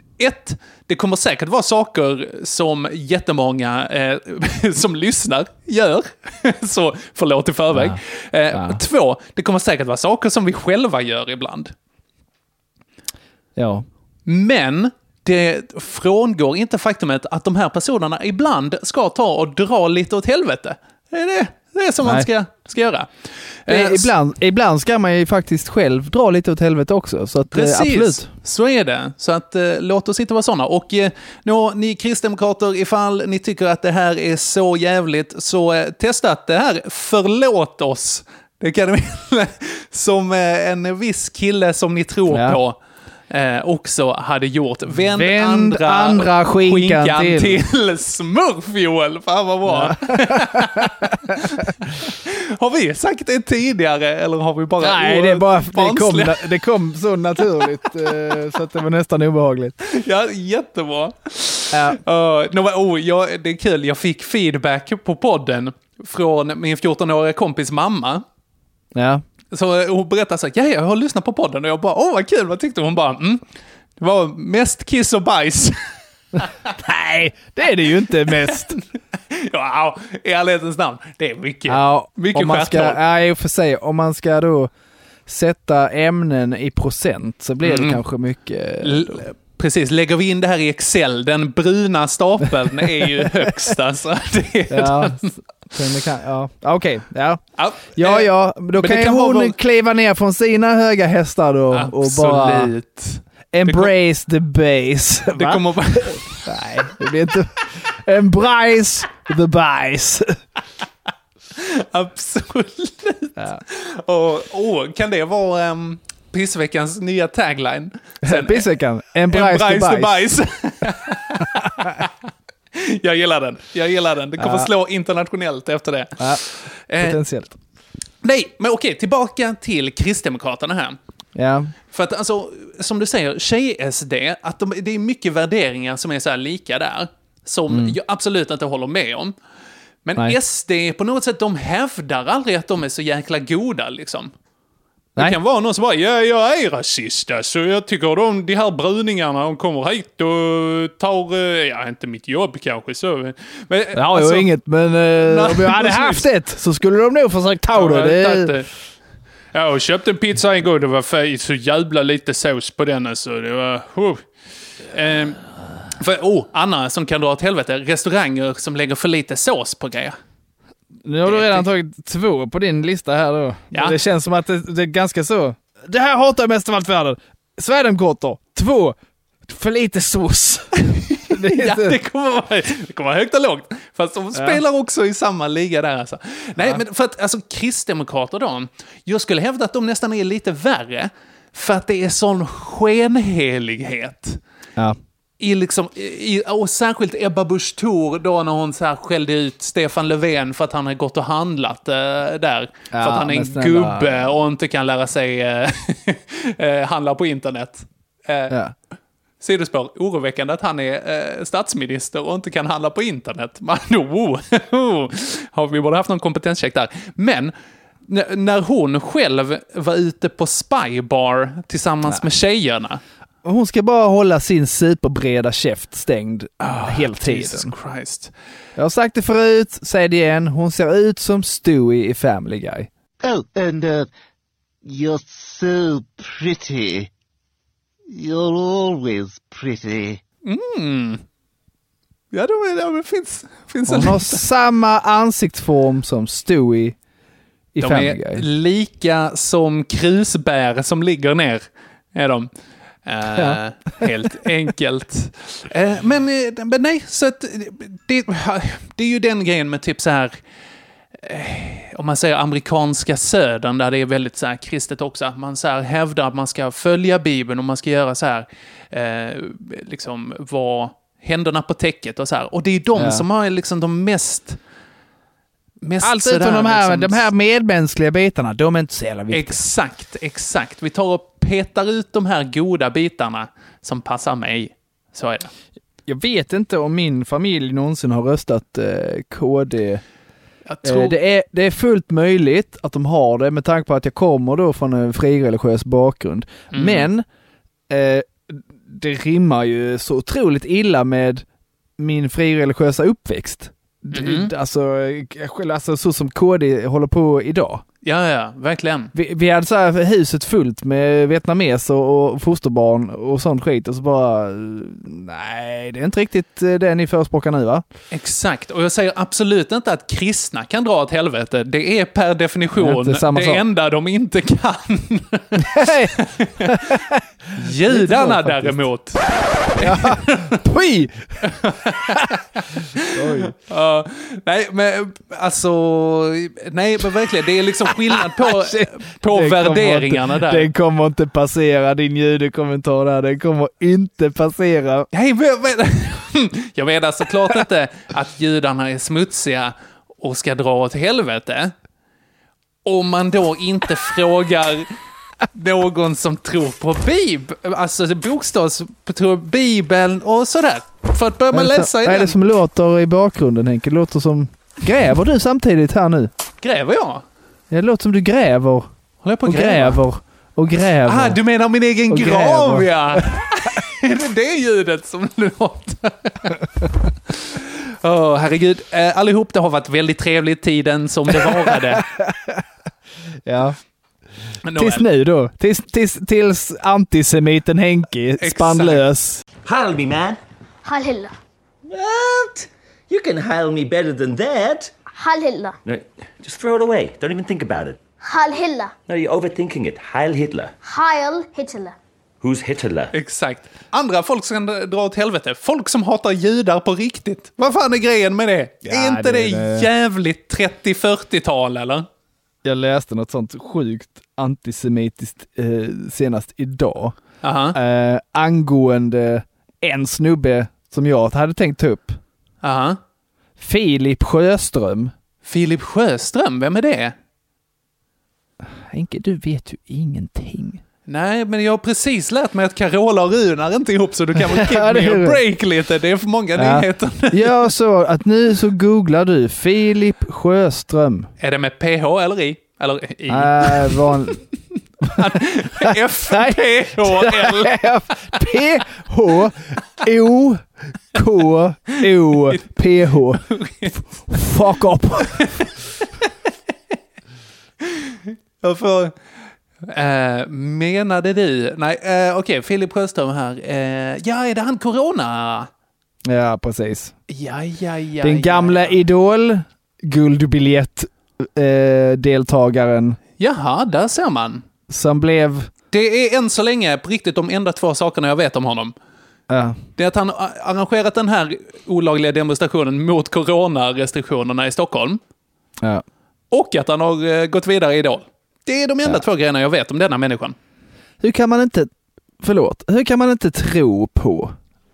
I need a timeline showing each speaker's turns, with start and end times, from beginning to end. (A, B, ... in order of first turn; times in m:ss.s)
0:00.2-0:11.7 A
0:07.7-0:08.0 B
0:08.5-0:08.8 B
0:13.6-0:13.9 B
0:14.3-0:23.1 A
0:23.6-0:24.1 A
0:23.7-0:28.3 B
0:27.5-0:42.8 A
0:42.3-0:42.6 B
0:43.3-0:56.6 A
0:44.9-0:47.6 B
0:49.7-0:51.4 B
0:54.8-0:59.8 B
0:59.8-1:08.2 A
1:01.7-1:02.0 B
1:09.0-1:09.2 B
1:09.5-1:13.4 A
1:14.0-1:15.8 A
1:16.8-1:18.8 B
1:18.3-1:18.5 A
1:19.3-1:23.0 A
1:21.7-1:24.7 B
1:25.3-1:29.2 B
1:27.6-1:28.0 A
1:28.8-1:35.3 A
1:34.7-1:37.4 B
1:37.6-1:39.6 A
1:38.0-1:42.7 B
1:41.7-1:43.9 A
1:43.5-1:50.4 B
1:45.3-1:46.4 A
1:51.6-1:58.7 A
1:58.2-2:00.2 B
1:59.3-2:02.1 A
2:02.7-2:07.2 A
2:04.4-2:04.7 B
2:07.0-2:07.6 B
2:08.2-2:11.0 A
2:11.4-2:11.7 B
2:11.9-2:19.3 A
2:17.7-2:18.0 B
2:20.0-2:24.3 A
2:25.2-2:34.5 A
2:33.9-2:38.6 B
2:35.2-2:36.3 A
2:37.7-2:38.7 A
2:39.5-2:44.2 A
2:44.9-2:45.4 A
2:46.0-2:50.2 A
2:51.0-3:02.0 B
2:51.2-2:51.7 A
3:00.9-3:14.4 A
3:04.3-3:04.6 B
3:15.4-3:28.6 A
3:22.9-3:24.2 B
3:29.4-3:37.5 A
3:38.1-3:43.0 A
3:43.4-3:47.7 B
3:46.6-3:48.3 A
3:48.8-3:52.9 B
3:53.2-3:54.1 C
3:54.8-3:57.1 C
3:58.1-4:00.2 C
4:00.5-4:01.2 A
4:02.3-4:04.4 A
4:03.9-4:07.0 B
4:07.7-4:08.4 B
4:07.8-4:12.5 A
4:13.1-4:20.4 A
4:21.2-4:34.6 A
4:33.0-4:33.2 B
4:35.8-4:37.3 A
4:36.0-4:39.6 B
4:39.3-4:45.5 A
4:46.1-4:50.0 B
4:50.7-4:51.2 A
4:50.8-4:57.2 B
4:56.7-4:57.1 A
4:57.9-5:01.4 B
5:02.0-5:07.8 B
5:04.1-5:04.5 A
5:08.0-5:09.1 A
5:09.1-5:17.8 B
5:18.1-5:27.0 A
5:22.8-5:23.6 B
5:25.6-5:28.8 B
5:27.6-5:30.6 A
5:29.8-5:31.3 B
5:31.4-5:40.7 A
5:33.1-5:33.5 B
5:38.1-5:45.1 B
5:45.1-5:51.7 A
5:52.8-5:54.9 A
5:55.5-6:02.4 A
6:01.5-6:06.3 B
6:06.6-6:07.2 A
6:07.7-6:08.9 B
6:09.2-6:10.0 A
6:09.4-6:11.4 B
6:11.1-6:16.6 A
6:12.1-6:13.3 B
6:17.3-6:22.1 A
6:21.4-6:22.6 B
6:23.4-6:23.8 B
6:24.6-6:25.1 A
6:24.8-6:29.4 B
6:28.4-6:29.0 A
6:29.6-6:30.4 D
6:30.8-6:31.3 E
6:31.9-6:34.9 D
6:35.2-6:35.8 E
6:35.9-6:38.0 D
6:38.2-6:38.9 E
6:39.1-6:40.7 D
6:40.8-6:42.0 E
6:42.4-6:43.1 D
6:43.1-6:52.1 A
6:48.8-6:49.9 B
6:52.6-6:57.2 B
6:57.4-6:57.8 A
6:57.7-7:02.2 B
7:02.6-7:03.0 A
7:03.6-7:05.1 B
7:05.4-7:07.2 A
7:08.6-7:10.8 B
7:11.1-7:17.5 A
7:14.4-7:15.4 B
7:16.6-7:21.3 B
7:21.4-7:24.2 A
7:23.3-7:24.4 B
7:25.1-7:27.8 A
7:25.8-7:35.6 B
7:33.5-7:34.0 A
7:35.3-7:35.7 A
7:37.8-7:39.1 A
7:39.9-7:45.7 A
7:46.3-7:47.1 B
7:47.3-7:49.0 A
7:48.2-7:53.2 B
7:53.4-7:54.6 A
7:54.9-7:55.7 B
7:55.9-7:59.0 A
7:59.5-7:59.8 B
8:00.0-8:05.2 A
8:06.5-8:10.6 A
8:11.2-8:11.9 B
8:12.4-8:14.6 B